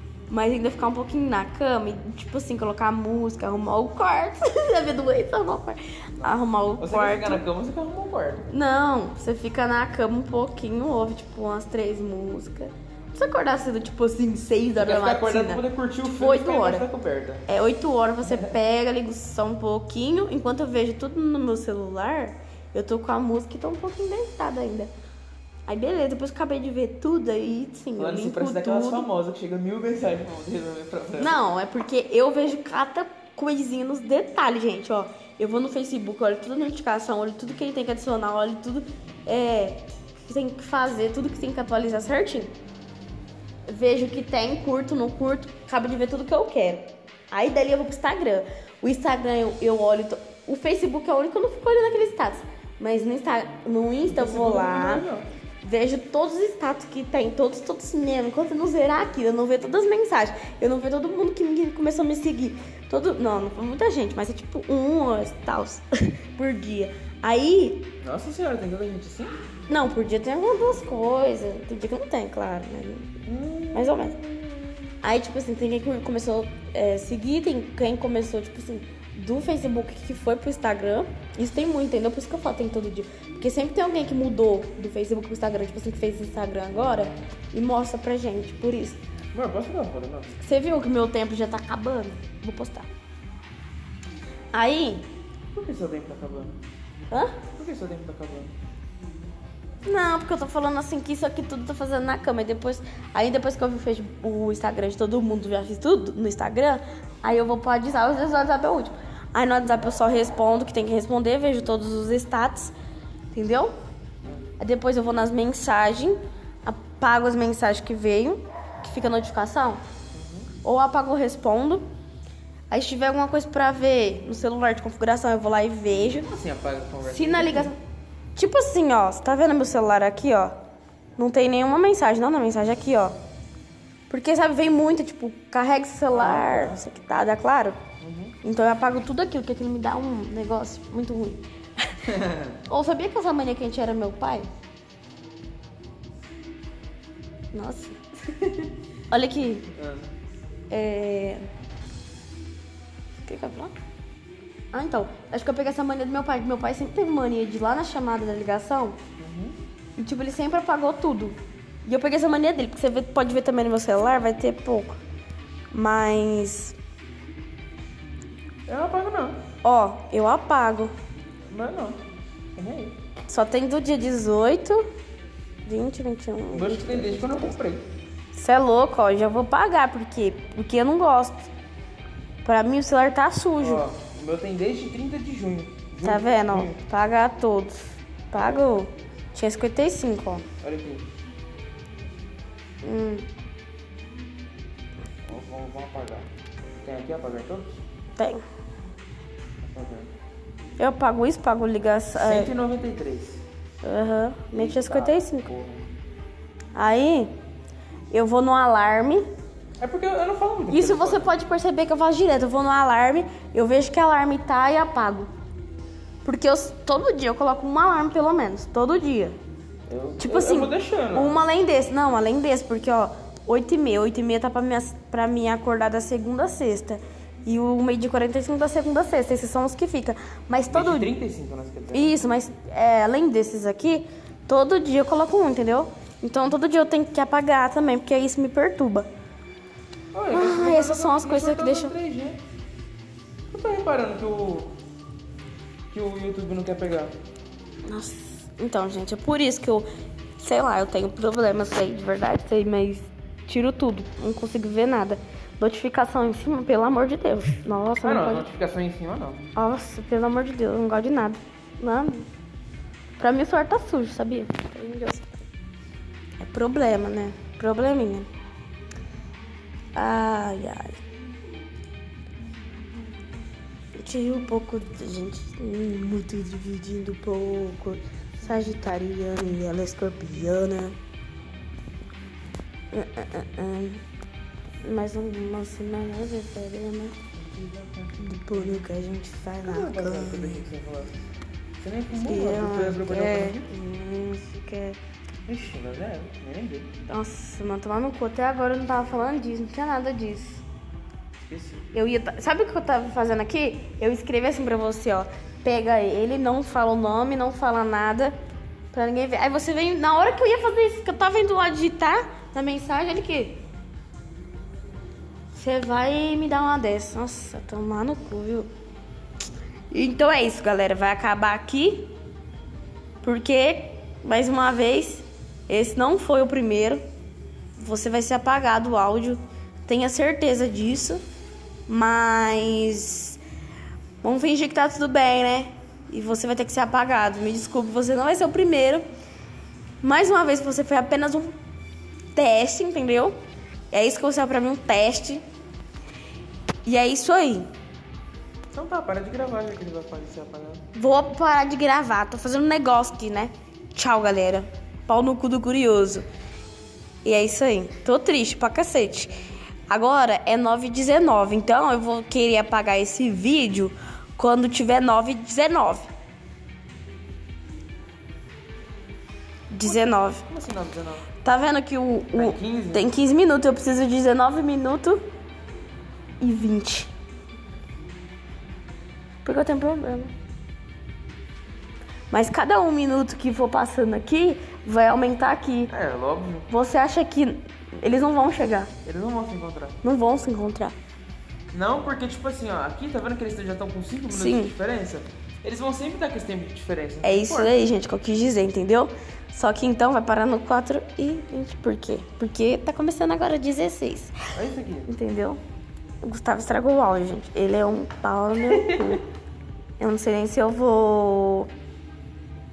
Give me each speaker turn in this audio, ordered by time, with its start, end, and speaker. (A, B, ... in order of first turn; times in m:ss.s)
0:00.3-0:07.4 A
0:06.2-0:08.5 B
0:08.5-0:16.9 A
0:14.8-0:17.5 B
0:17.5-0:24.9 A
0:18.2-0:18.5 B
0:25.7-0:29.1 A
0:28.0-0:31.4 B
0:31.2-0:42.5 A
0:43.7-0:55.1 A
0:54.1-0:55.3 B
0:55.6-1:07.9 A
1:08.0-1:09.4 B
1:09.7-1:13.1 A
1:13.3-1:14.8 B
1:13.7-1:14.2 A
1:15.0-1:29.0 A
1:29.3-1:30.4 B
1:30.4-1:32.9 A
1:34.5-1:35.1 A
1:35.5-1:36.6 B
1:37.1-1:37.4 A
1:37.6-1:38.5 B
1:39.8-1:52.8 A
1:53.3-1:53.7 A
1:54.6-1:59.8 A
2:00.1-2:00.5 B
2:00.6-2:01.9 A
2:02.7-2:06.3 A
2:06.1-2:07.7 B
2:07.0-2:07.8 A
2:08.4-2:10.6 A
2:11.2-2:13.2 A
2:14.1-2:17.8 A
2:16.1-2:16.8 B
2:18.0-2:18.4 B
2:18.4-2:22.0 A
2:22.0-2:22.6 B
2:22.7-2:24.5 A
2:27.5-2:28.0 A
2:28.3-2:28.7 B
2:29.1-2:29.7 A
2:29.7-2:30.1 B
2:30.7-2:31.4 A
2:33.3-2:33.7 A
2:34.7-2:39.0 A
2:39.2-2:39.6 B
2:40.0-2:45.0 A
2:45.7-2:46.8 A
2:48.7-2:49.4 B
2:49.6-2:50.9 A
2:51.5-2:52.0 B
2:52.6-2:53.0 B
2:53.3-2:54.8 A
2:55.6-2:57.5 A
2:56.5-2:57.9 B
2:58.3-3:01.5 A
3:02.4-3:03.8 A
3:03.6-3:06.8 B
3:06.0-3:07.8 A
3:08.3-3:10.5 A
3:08.3-3:08.6 B
3:10.6-3:11.1 B
3:12.8-3:13.3 A
3:15.3-3:16.3 B
3:16.8-3:17.8 B
3:19.6-3:20.1 B
3:20.8-3:22.5 A
3:22.2-3:23.4 B
3:23.8-3:25.5 A
3:24.5-3:25.8 B
3:26.8-3:27.3 A
3:28.1-3:29.2 A
3:29.8-3:31.3 B
3:30.7-3:35.3 A
3:36.2-3:39.4 A
3:39.9-3:41.4 B
3:40.2-3:51.1 A
3:50.7-3:52.2 B
3:51.9-3:59.1 A
4:00.1-4:02.4 B
4:00.3-4:02.0 A
4:03.5-4:04.8 B
4:05.9-4:07.1 B
4:07.9-4:09.9 A
4:10.4-4:18.5 A
4:18.0-4:19.4 B
4:19.6-4:22.3 A
4:23.2-4:25.4 A
4:26.4-4:28.3 A
4:30.0-4:31.0 A
4:34.0-4:41.0 A
4:42.9-4:44.0 A
4:44.8-4:47.2 A
4:47.3-4:48.8 B
4:48.3-4:50.7 A
4:49.6-4:51.2 B
4:51.8-4:53.7 B
4:52.2-4:55.0 A
4:55.4-4:56.9 B
4:57.1-5:00.6 A
5:01.5-5:01.9 B
5:01.9-5:08.4 A
5:08.9-5:13.6 A
5:15.6-5:18.7 A
5:19.9-5:22.1 A
5:23.2-5:27.0 A
5:27.8-5:31.2 A
5:31.9-5:33.4 A
5:34.2-5:39.0 A
5:40.0-5:41.5 A
5:42.4-5:43.4 A
5:43.9-5:45.4 A
5:46.9-5:47.7 A
5:48.7-5:50.8 B
5:50.9-5:56.3 A
5:57.2-5:59.3 A
5:59.9-6:06.1 A
6:09.7-6:10.4 A
6:09.8-6:11.3 B
6:11.4-6:15.2 A
6:12.3-6:13.1 B
6:16.4-6:17.1 A
6:19.4-6:20.3 A
6:22.3-6:25.9 A
6:25.9-6:26.7 B
6:26.7-6:28.9 A
6:29.0-6:30.0 B
6:30.0-6:31.0 A
6:31.7-6:37.7 B
6:34.3-6:34.7 A
6:37.2-6:44.4 A
6:44.6-6:45.1 B
6:45.1-6:45.6 A
6:46.2-6:49.2 A
6:48.6-6:49.2 B
6:50.0-6:51.7 A